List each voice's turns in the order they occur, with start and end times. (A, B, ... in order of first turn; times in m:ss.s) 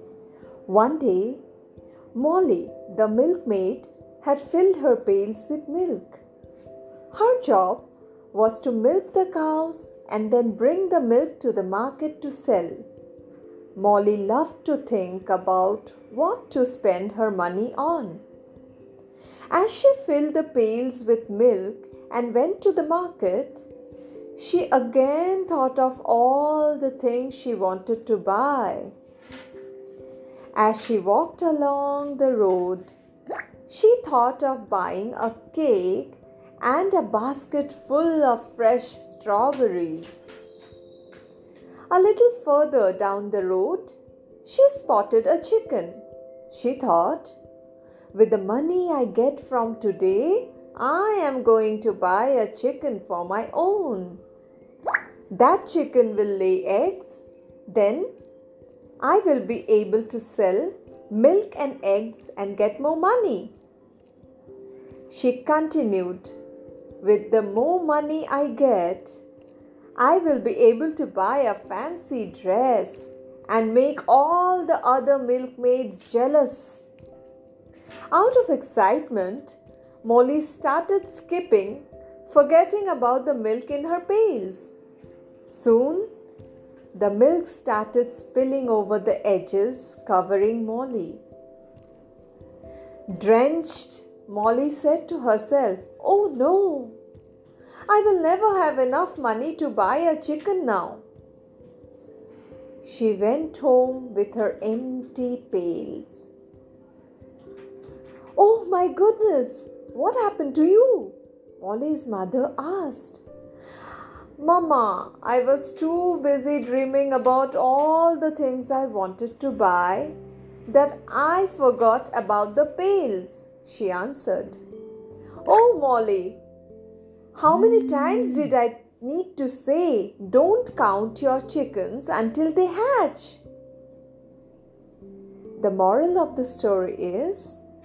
0:00.7-0:01.4 A
0:02.1-0:06.2 A
0:07.1-0:12.8 A
0:13.8-0:18.2 A
0:19.5-0:23.7 A
0:24.4-0:28.9 A
0:30.6-0:32.9 A
0:33.7-0:40.1 A
0:41.9-0:47.4 A
0:48.1-0:54.2 A
0:55.3-0:58.1 A
0:59.0-1:03.5 A
1:05.1-1:06.4 A
1:07.0-1:09.2 A
1:10.0-1:16.9 A
1:18.1-1:24.7 A
1:25.5-1:26.1 A
1:26.9-1:31.2 A
1:33.1-1:37.0 A
1:37.9-1:41.0 A
1:42.8-1:46.3 A
1:48.4-1:53.2 A
1:54.4-2:00.2 A
2:00.7-2:04.6 A
2:05.4-2:06.4 A
2:07.3-2:13.4 A
2:15.6-2:17.6 A